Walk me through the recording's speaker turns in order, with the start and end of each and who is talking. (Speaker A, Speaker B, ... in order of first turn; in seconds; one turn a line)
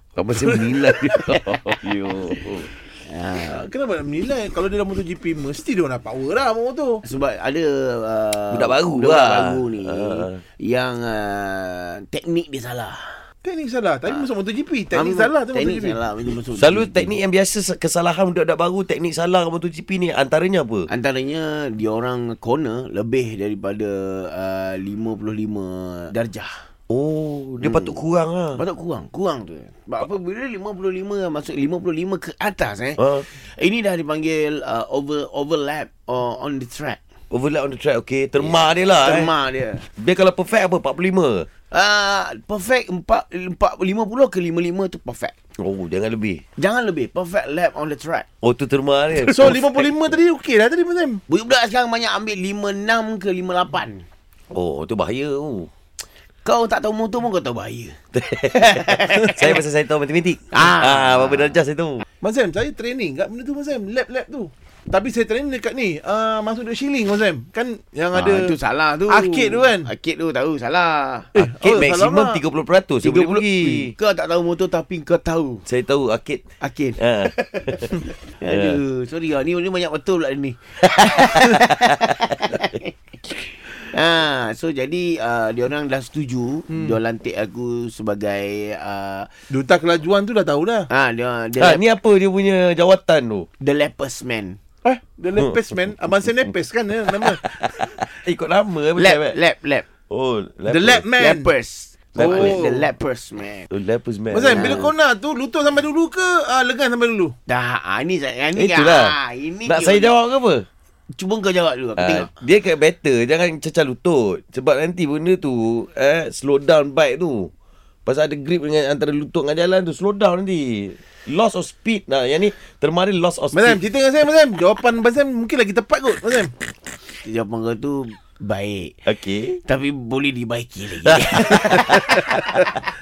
Speaker A: 0.1-2.7
Speaker B: 0.3-1.6
Speaker B: 3.1-3.6
Speaker C: 3.5-7.0
Speaker B: 7.0-13.2
Speaker A: 8.5-10.4
Speaker C: 13.4-16.0
Speaker B: 14.9-17.1
Speaker A: 16.5-20.9
Speaker B: 20.9-26.6
Speaker A: 26.9-28.6
Speaker B: 27.6-28.0
Speaker B: 28.5-37.0
Speaker A: 33.0-33.2
Speaker A: 37.3-39.3
Speaker B: 38.4-39.9
Speaker A: 40.0-41.5
Speaker B: 41.7-45.3
Speaker A: 45.6-46.4
Speaker B: 46.6-48.2
Speaker A: 48.4-49.9
Speaker C: 49.1-51.2
Speaker B: 51.3-54.0
Speaker A: 54.5-55.7
Speaker B: 56.4-59.6
Speaker A: 58.1-62.0
Speaker B: 60.5-61.6
Speaker C: 62.2-68.5
Speaker B: 68.1-71.3
Speaker C: 69.1-69.9
Speaker C: 71.3-72.4
Speaker A: 71.4-73.9
Speaker B: 73.0-75.6
Speaker A: 75.7-76.4
Speaker B: 76.6-89.3
Speaker A: 77.0-77.9
Speaker A: 78.4-78.7
Speaker C: 86.7-86.9
Speaker C: 89.5-90.9
Speaker B: 90.9-91.8
Speaker A: 91.6-93.5
Speaker B: 93.6-94.6
Speaker C: 94.8-97.4
Speaker A: 95.4-95.9
Speaker A: 97.2-99.3
Speaker B: 99.0-99.8
Speaker A: 100.1-101.0
Speaker C: 100.7-101.5
Speaker B: 101.2-103.7
Speaker A: 102.2-102.6
Speaker C: 102.2-102.9
Speaker A: 103.7-104.8
Speaker C: 104.3-107.3
Speaker B: 104.5-104.9
Speaker B: 107.5-110.1
Speaker A: 108.5-110.7
Speaker B: 111.1-112.3
Speaker A: 112.0-117.5
Speaker A: 118.0-123.8
Speaker C: 123.5-126.5
Speaker B: 127.1-132.8
Speaker A: 129.0-129.6
Speaker A: 131.1-131.9
Speaker C: 131.8-132.1